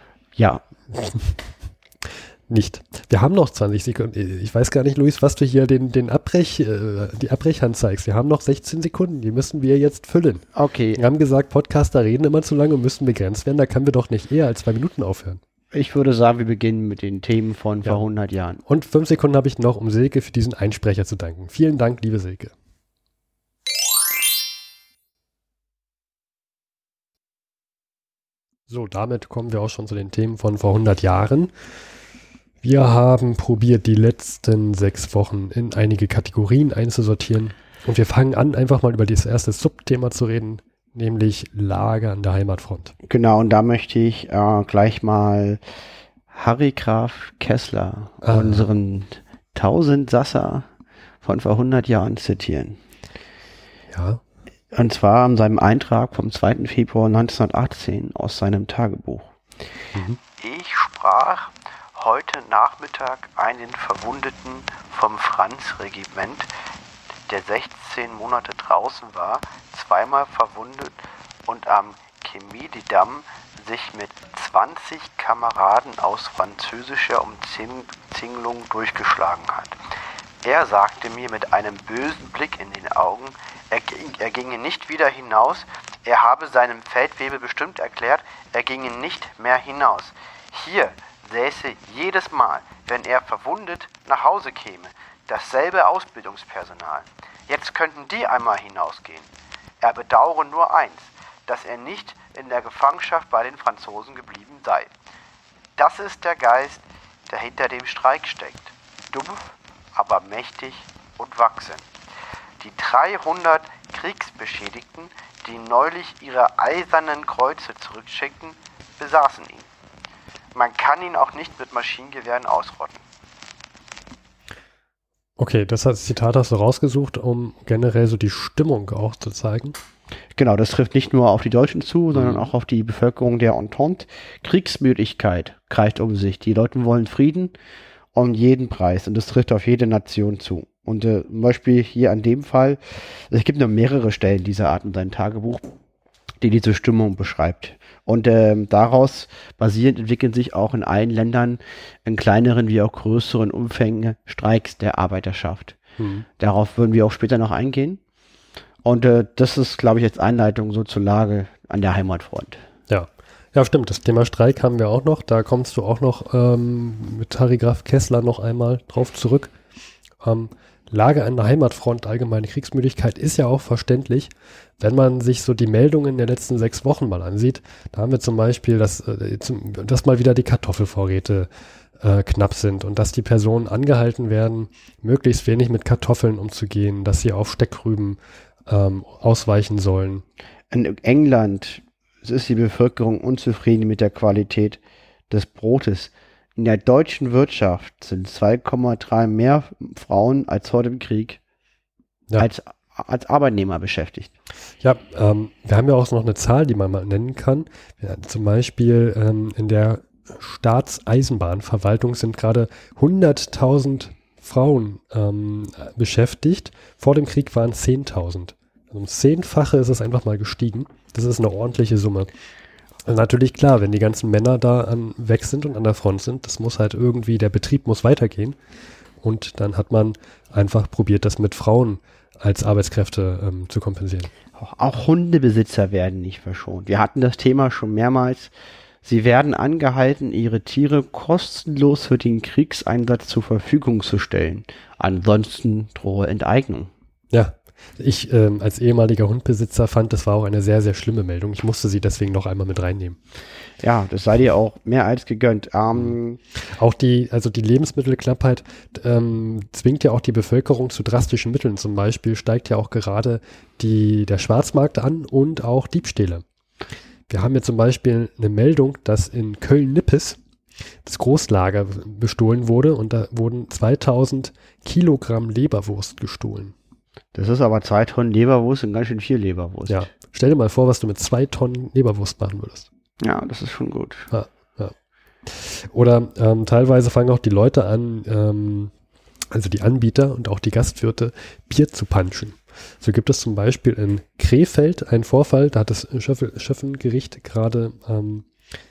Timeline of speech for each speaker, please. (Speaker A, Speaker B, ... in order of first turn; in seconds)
Speaker A: 0.4-0.6, 10.6-11.0, 15.7-18.6, 43.1-45.6, 46.3-50.7, 51.2-52.8, 54.7-59.3, 60.4-66.5, 67.3-70.9, 71.5-79.8, 80.4-99.3, 99.8-104.9, 105.8-111.9, 112.6-119.7, 120.5-123.0, 130.4-137.5, 138.1-145.7, 146.4-155.8, 156.4-158.0, 158.8-162.6, 190.7-194.8, 195.3-201.4, 202.4-204.3, 234.6-238.5, 239.0-246.9, 253.8-256.4, 277.3-280.1, 283.2-284.3
Speaker B: 0.9-1.4, 2.5-10.4, 11.0-15.4, 18.7-22.5, 28.7-31.5, 32.6-42.9, 48.2-48.7, 53.9-54.2, 125.4-129.8, 132.1-132.5, 156.0-156.3, 162.9-169.5, 170.2-181.5, 182.0-190.2, 204.8-222.3, 223.1-228.6, 229.2-234.3, 247.3-253.2, 256.0-266.4, 267.3-270.4, 271.0-276.7, 279.9-282.9, 284.3-284.9, 285.5-288.9, 289.5-298.5